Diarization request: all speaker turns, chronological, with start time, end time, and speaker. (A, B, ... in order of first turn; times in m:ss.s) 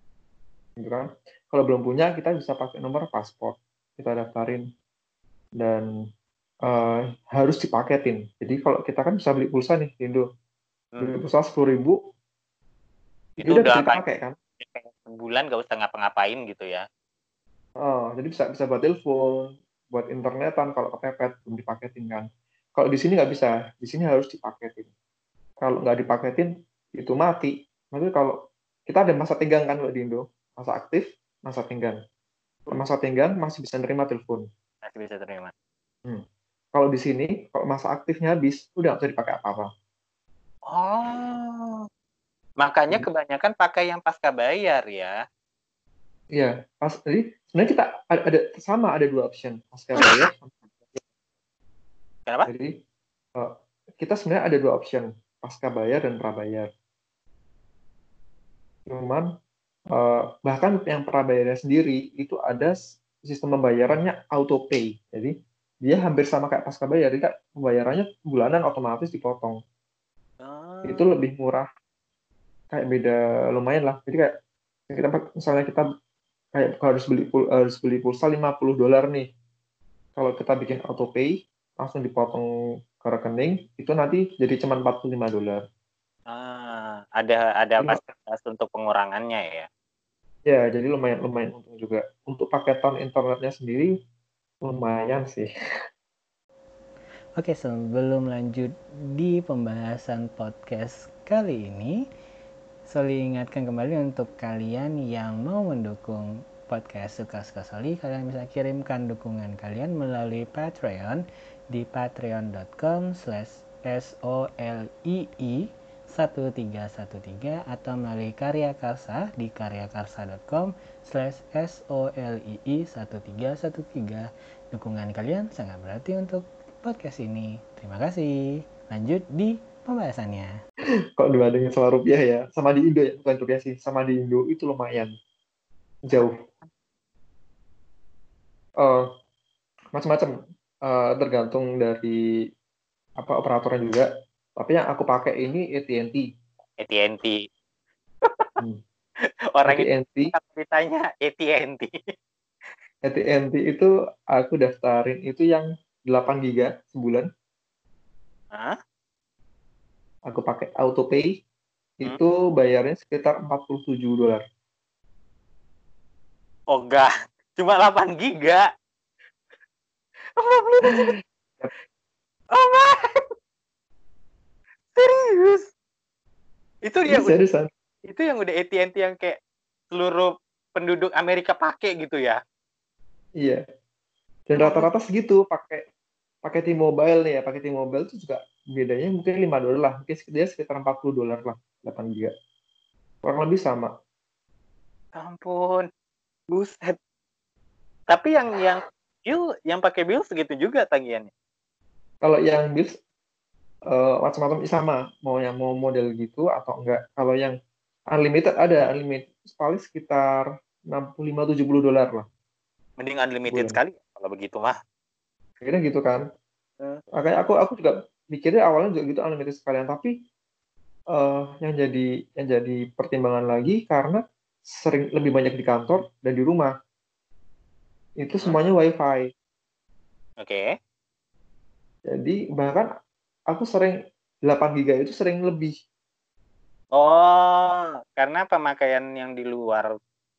0:00.8-0:04.6 A
0:05.6-0:05.9 A
0:06.6-0:10.2 A
0:11.0-0:12.0 A
0:13.4-0:14.0 B
0:13.4-0:14.4 A
0:14.6-0:16.8 B
0:17.8-0:24.9 A
0:25.6-0:32.0 A
0:32.7-0:34.4 A
0:34.8-0:35.5 B
0:36.0-0:39.7 A
0:40.7-0:41.8 B
0:42.6-0:45.2 B
0:46.4-0:51.0 A
0:52.4-0:52.7 A
0:53.4-0:56.7 A
0:58.9-0:59.3 A
0:59.9-1:09.6 A
1:10.4-1:11.0 B
1:10.8-1:11.7 A
1:12.7-1:14.4 A
1:14.9-1:15.8 A
1:16.5-1:19.3 A
1:20.2-1:22.4 A
1:23.0-1:25.6 A
1:26.3-1:29.7 B
1:30.5-1:33.9 A
1:34.6-1:35.5 A
1:37.4-1:42.1 C
1:42.9-2:10.6 C
2:11.2-2:15.1 A
2:16.1-2:16.4 A
2:18.8-2:19.0 A
2:19.9-2:20.3 A
2:20.8-2:22.2 A
2:23.2-2:26.2 A
2:26.8-2:27.4 B
2:28.2-2:28.5 B
2:29.5-2:32.1 B
2:29.7-2:30.3 A
2:33.0-2:37.3 A
2:40.3-2:41.4 A
2:42.0-2:44.4 A
2:46.7-2:48.7 B
2:50.4-2:51.1 B
2:52.5-2:53.2 B
2:54.9-2:55.7 B
2:56.8-2:57.4 B
2:57.1-2:57.7 A
2:58.1-2:59.4 B
2:59.9-3:02.4 B
3:04.5-3:05.8 A
3:04.6-3:04.9 B
3:06.4-3:12.3 A
3:13.2-3:13.9 A
3:15.2-3:15.8 B
3:16.5-3:17.0 B
3:18.1-3:21.3 B
3:22.2-3:22.9 A
3:23.9-3:27.5 A
3:28.1-3:32.2 A
3:33.0-3:34.8 B
3:33.5-3:33.8 A
3:35.6-3:36.2 A
3:37.2-3:40.1 A
3:41.1-3:44.2 A
3:44.7-3:46.7 A
3:48.2-3:49.3 A
3:50.4-3:50.6 B
3:52.1-3:52.9 A
3:53.5-3:55.7 A
3:56.9-3:59.9 B